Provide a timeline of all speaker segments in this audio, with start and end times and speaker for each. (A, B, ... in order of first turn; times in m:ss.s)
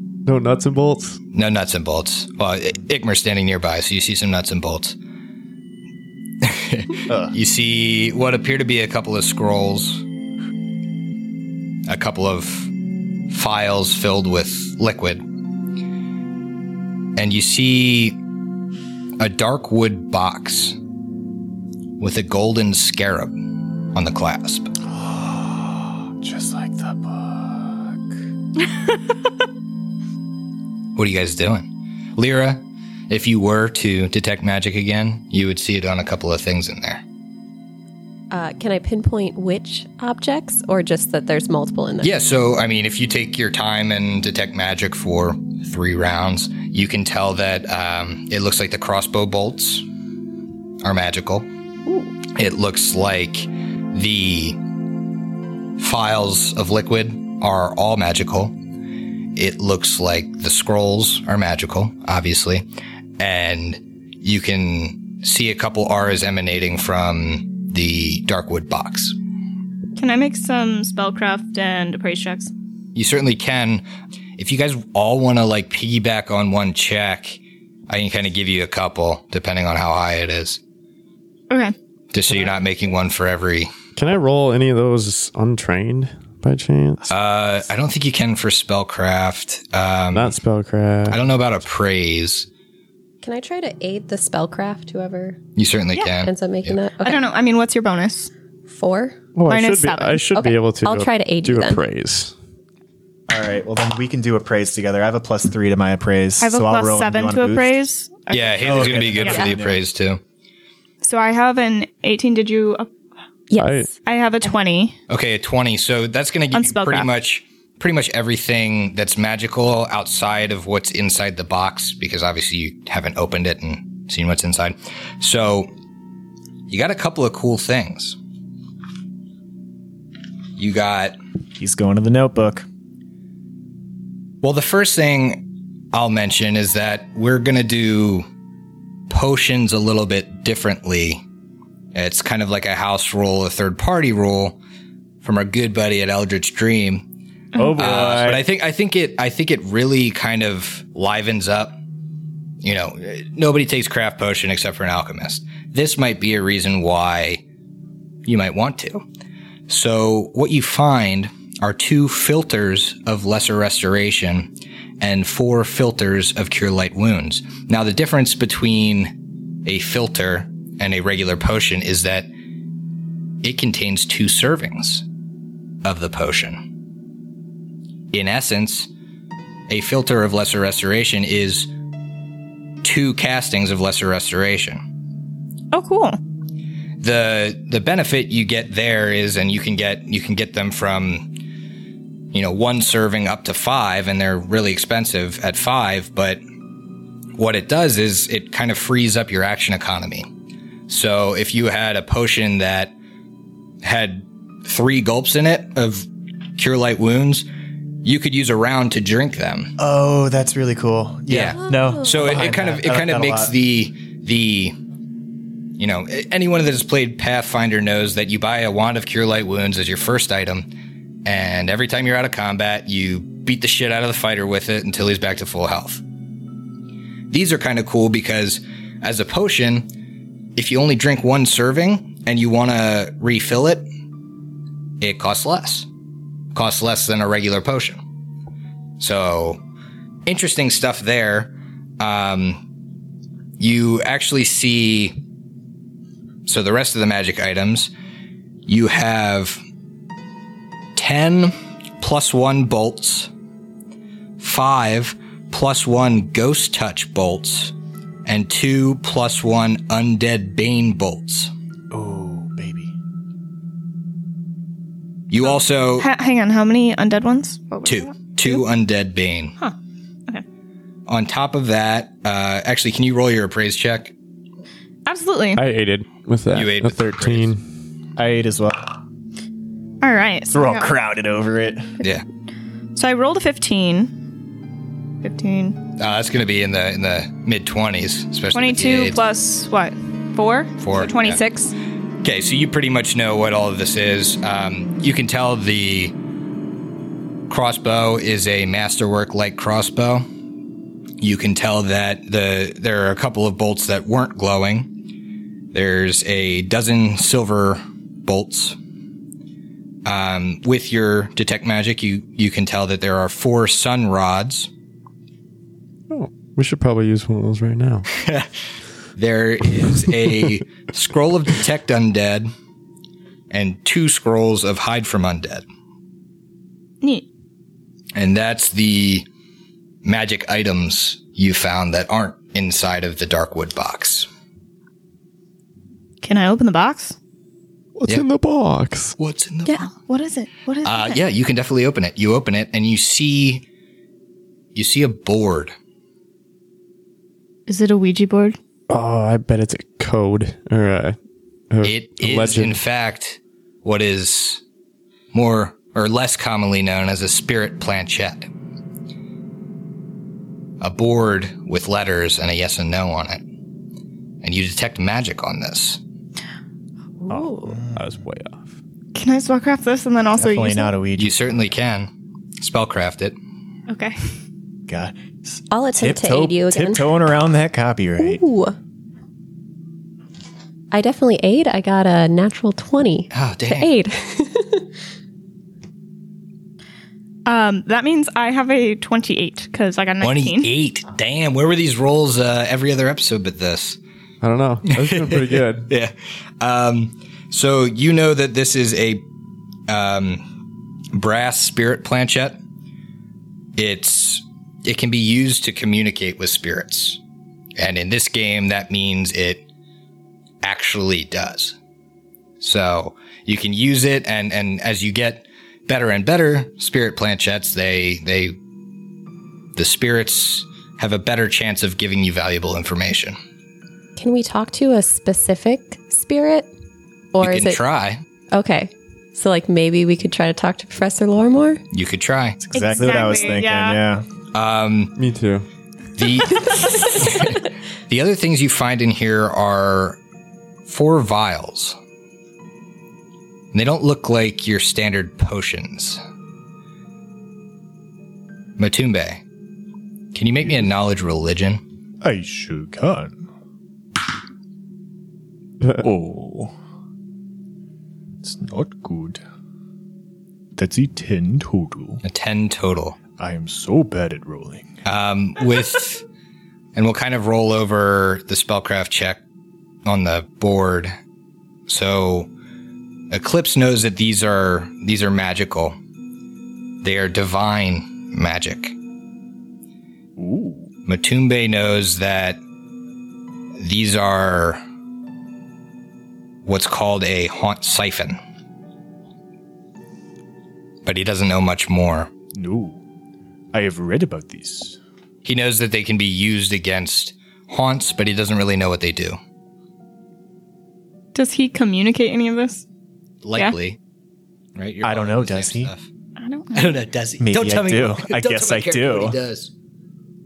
0:00.2-0:01.2 A
0:01.3-0:05.0 B
0:06.4-0:10.0 B
0:07.1-0:07.3 C
0:11.9-0:12.7 B
0:13.3-0:15.2 B
0:17.2-0:18.2 B
0:19.2-0:20.8 B
0:22.0-0:23.4 B
0:23.9-0:24.7 B
0:24.9-0:28.0 C
0:31.0-0:37.0 B
0:38.3-0:42.1 D
0:42.0-0:49.8 B
0:50.8-0:51.5 B
0:52.4-0:54.6 B
0:55.8-0:58.6 B
0:59.4-1:02.6 B
1:03.2-1:09.2 B
1:10.0-1:12.5 E
1:12.9-1:13.8 B
1:14.4-1:20.6 B
1:21.5-1:21.7 E
1:22.1-1:23.7 B
1:24.0-1:27.0 A
1:27.1-1:30.3 B
1:30.1-1:31.2 A
1:31.1-1:32.5 B
1:33.2-1:35.4 D
1:35.6-1:36.8 B
1:36.2-1:37.2 D
1:37.0-1:38.3 E
1:38.7-1:39.2 D
1:39.4-1:42.3 A
1:39.5-1:40.3 E
1:40.3-1:41.8 D
1:43.3-1:47.8 C
1:46.4-1:49.5 E
1:48.3-1:50.2 B
1:48.6-1:49.8 C
1:51.0-1:52.9 E
1:53.5-1:53.9 D
1:53.6-1:53.9 A
1:54.0-1:55.0 E
1:55.1-2:05.7 B
1:56.5-1:57.1 E
2:06.7-2:08.2 B
2:10.6-2:11.2 B
2:11.6-2:12.6 C
2:14.4-2:18.3 B
2:19.1-2:21.2 B
2:21.9-2:24.6 B
2:25.2-2:27.0 B
2:27.5-2:28.2 E
2:27.6-2:28.4 C
2:27.8-2:31.8 B
2:32.6-2:37.4 B
2:38.2-2:39.0 B
2:39.7-2:49.1 B
2:49.6-2:52.3 B
2:53.4-2:55.0 B
2:55.8-2:56.7 B
2:58.1-2:58.9 B
2:59.7-3:01.7 B
3:02.8-3:04.8 B
3:05.7-3:06.2 E
3:07.0-3:11.3 B
3:12.3-3:16.4 B
3:17.4-3:20.3 B
3:20.9-3:22.9 B
3:23.8-3:27.4 B
3:28.0-3:29.7 B
3:29.8-3:33.5 C
3:31.3-3:34.8 B
3:31.6-3:32.5 D
3:35.8-3:40.7 B
3:41.2-3:46.0 B
3:47.3-3:49.9 B
3:50.6-3:53.9 B
3:55.0-3:55.9 B
3:56.5-3:58.0 B
3:59.0-3:59.6 B
4:00.2-4:02.6 B
4:03.6-4:05.2 B
4:06.4-4:07.9 B
4:08.6-4:09.6 B
4:11.0-4:13.3 B
4:14.4-4:17.7 B
4:18.2-4:21.5 B
4:21.9-4:22.9 C
4:25.3-4:26.1 B
4:25.4-4:28.6 E
4:27.8-4:29.6 B
4:31.1-4:34.1 B
4:35.0-4:35.6 E
4:35.6-4:37.6 A
4:36.5-4:37.6 B
4:38.2-4:38.9 C
4:40.0-4:40.9 E
4:40.5-4:41.9 C
4:43.0-4:44.1 E
4:45.2-4:45.7 E
4:46.0-4:49.2 B
4:48.5-4:51.7 E
4:50.8-4:51.4 B
4:52.2-4:56.1 B
4:57.5-5:00.3 B
5:01.2-5:04.9 B
5:05.7-5:08.8 B
5:10.0-5:14.7 B
5:16.1-5:18.1 A
5:18.2-5:18.5 B
5:19.2-5:22.5 B
5:23.5-5:25.6 B
5:28.1-5:29.2 B
5:30.0-5:34.3 B
5:36.2-5:37.2 E
5:38.0-5:39.2 A
5:39.2-5:39.9 B
5:39.6-5:41.2 E
5:40.8-5:43.6 B
5:44.7-5:45.7 B
5:47.7-5:48.6 E
5:48.9-5:51.2 A
5:51.7-5:52.8 A
5:51.8-5:54.6 B
5:55.3-5:58.5 B
6:00.8-6:03.4 B
6:04.4-6:06.0 B
6:07.3-6:08.7 A
6:07.6-6:08.0 C
6:09.1-6:10.9 E
6:10.3-6:11.6 C
6:11.2-6:13.4 B
6:13.9-6:14.3 E
6:14.9-6:18.4 C
6:15.7-6:17.1 D
6:18.2-6:18.7 D
6:20.9-6:24.9 D
6:23.3-6:23.9 B
6:27.4-6:30.7 E
6:30.2-6:34.0 B
6:34.4-6:35.9 A
6:34.9-6:39.2 B
6:39.9-6:40.4 B
6:41.1-6:42.6 B
6:43.8-6:47.2 B
6:47.8-6:49.6 B
6:50.6-6:51.8 B
6:52.6-6:58.6 B
6:59.8-7:03.4 B
7:04.2-7:06.7 D
7:07.3-7:07.8 D
7:07.4-7:08.2 B
7:08.5-7:11.8 D
7:11.9-7:12.6 B
7:12.6-7:14.2 C
7:12.7-7:14.0 E
7:14.5-7:15.1 B
7:15.2-7:15.6 A
7:16.2-7:20.2 B
7:20.9-7:22.0 B
7:23.7-7:26.2 B
7:28.8-7:29.4 B
7:30.3-7:31.8 B
7:32.2-7:33.4 C
7:35.8-7:36.1 A
7:36.0-7:36.7 C
7:38.4-7:39.4 C
7:40.8-7:42.2 C
7:42.2-7:43.2 B
7:43.4-7:44.9 C
7:45.0-7:46.2 B
7:46.9-7:49.4 B
7:50.0-7:51.2 B
7:51.9-7:52.5 B
7:53.3-7:56.0 B
7:57.0-7:59.0 B
8:00.4-8:00.9 C
8:01.0-8:02.6 B
8:03.8-8:04.8 B
8:06.6-8:08.4 B
8:11.0-8:12.3 B
8:12.5-8:13.0 C
8:13.7-8:15.0 C
8:15.4-8:19.4 B
8:21.3-8:22.8 E
8:23.4-8:24.0 B
8:24.8-8:26.0 B
8:25.0-8:25.9 C
8:26.4-8:27.0 E
8:26.7-8:29.7 B
8:27.4-8:29.4 C